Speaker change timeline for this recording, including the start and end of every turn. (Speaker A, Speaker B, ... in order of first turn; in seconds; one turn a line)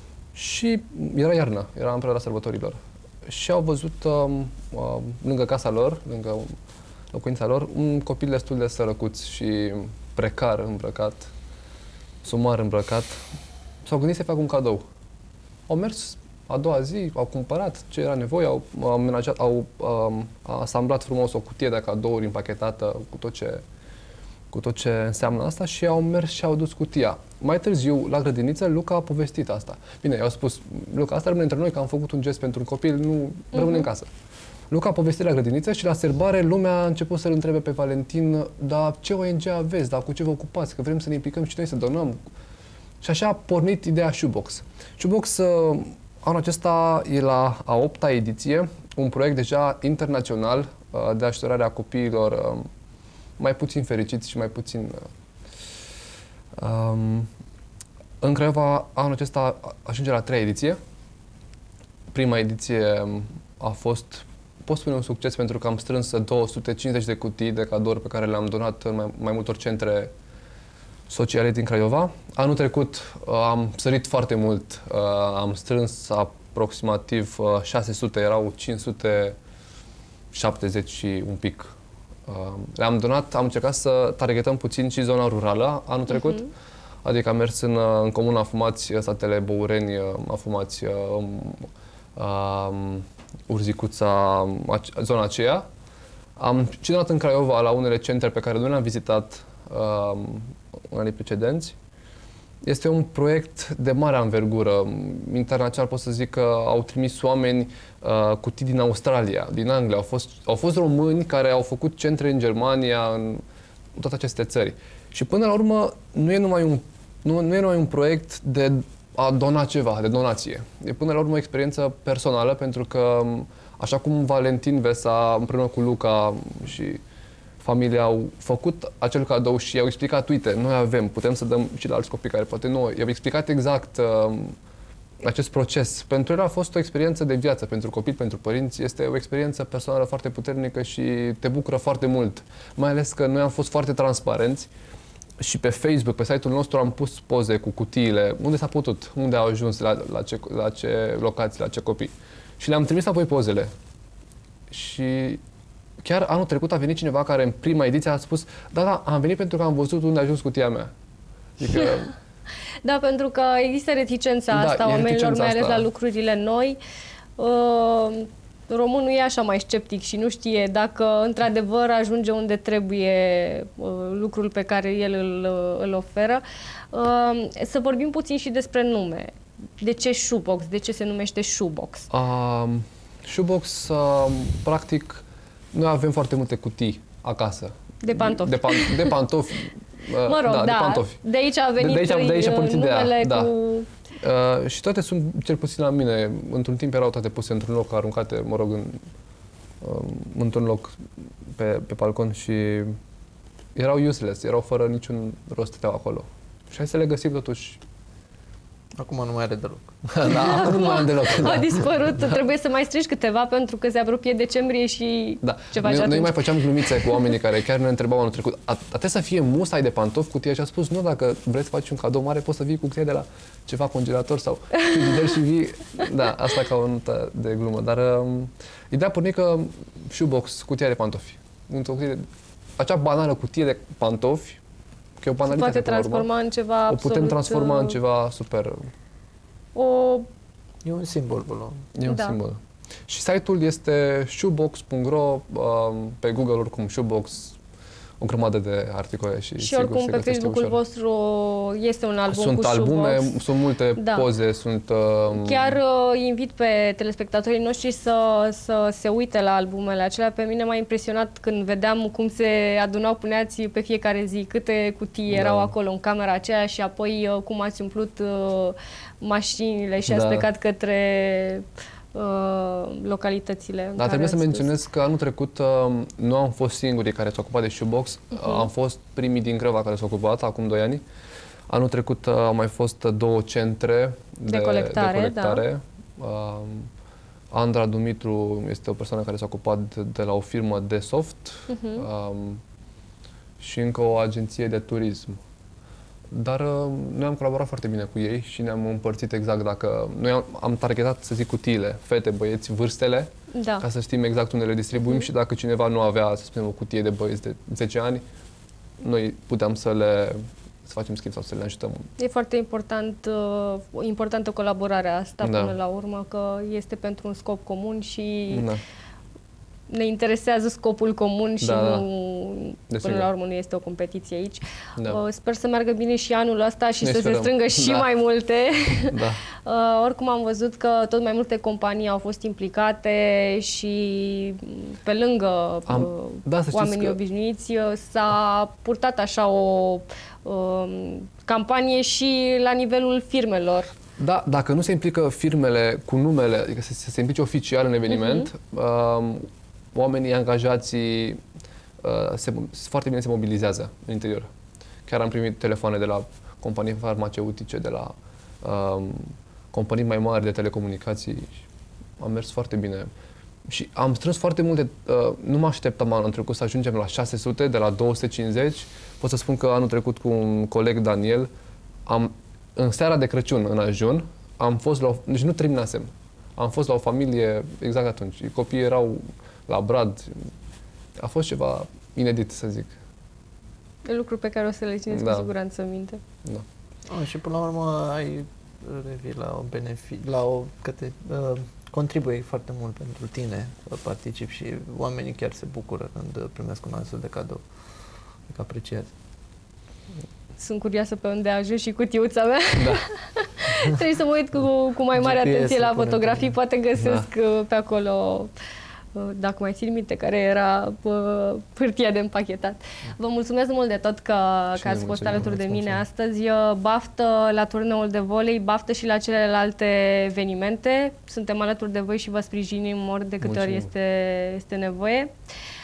Speaker A: 0.3-6.5
Speaker A: 7.1-11.3
Speaker A: 12.2-13.2
Speaker A: 13.8-14.8
Speaker A: 15.7-23.6
Speaker A: 24.5-34.1
Speaker B: 33.5-33.9
Speaker A: 34.7-42.2
Speaker A: 43.0-52.7
Speaker A: 53.4-55.1
Speaker A: 56.6-57.3
Speaker A: 58.2-60.8
Speaker A: 62.1-70.1
Speaker A: 71.1-79.4
Speaker A: 80.3-81.7
Speaker A: 82.3-86.5
Speaker B: 86.1-86.4
Speaker A: 87.0-95.7
Speaker A: 96.4-101.8
Speaker A: 102.6-113.4
Speaker A: 114.0-127.0
Speaker A: 127.6-134.6
Speaker A: 135.2-144.7
Speaker A: 145.4-153.7
Speaker A: 154.7-155.4
Speaker A: 156.0-160.9
Speaker A: 161.6-162.1
Speaker B: 162.8-166.8
Speaker A: 164.5-165.9
Speaker B: 167.4-182.1
Speaker A: 182.1-191.2
Speaker B: 188.0-189.2
Speaker B: 190.2-193.9
Speaker A: 191.8-193.5
Speaker A: 194.2-199.0
Speaker A: 199.8-200.9
Speaker A: 201.6-202.9
Speaker A: 203.8-207.8
Speaker C: 209.0-211.0
Speaker A: 210.1-212.4
Speaker B: 210.3-217.3
Speaker A: 215.4-232.2
Speaker A: 232.8-234.6
Speaker A: 235.2-236.3
Speaker B: 235.4-238.0
Speaker A: 236.9-238.8
Speaker B: 239.8-240.3
Speaker C: 240.8-241.8
Speaker A: 241.9-247.6
Speaker B: 242.1-242.4
Speaker A: 248.2-250.8
Speaker B: 249.6-253.4
Speaker A: 252.3-255.8
Speaker B: 254.0-254.3
Speaker B: 255.3-274.7
Speaker A: 265.3-265.7
Speaker A: 270.1-270.5
Speaker A: 274.0-281.0
Speaker B: 278.3-278.7
Speaker A: 281.7-286.9
Speaker B: 284.5-285.6
Speaker A: 287.5-292.6
Speaker B: 291.7-292.1
Speaker A: 293.6-295.4
Speaker A: 296.3-308.2
Speaker B: 303.5-303.9
Speaker A: 309.0-312.1
Speaker B: 312.2-318.7
Speaker A: 315.4-315.8
Speaker A: 318.5-318.8
Speaker B: 319.9-343.9
Speaker A: 321.6-322.1
Speaker A: 322.9-323.3
Speaker A: 327.0-328.1
Speaker A: 329.1-329.4
Speaker A: 335.9-337.2
Speaker A: 344.2-351.4
Speaker B: 348.1-348.5
Speaker A: 352.0-354.5
Speaker A: 355.1-361.6
Speaker A: 362.2-363.1
Speaker A: 363.7-371.5
Speaker A: 372.1-380.5
Speaker A: 381.2-383.0
Speaker B: 384.1-386.2
Speaker A: 385.1-385.5
Speaker C: 387.1-397.6
Speaker C: 398.5-399.1
Speaker B: 400.6-408.5
Speaker C: 405.1-406.6
Speaker A: 407.0-407.3
Speaker B: 409.1-425.3
Speaker A: 414.8-416.0
Speaker A: 423.4-423.9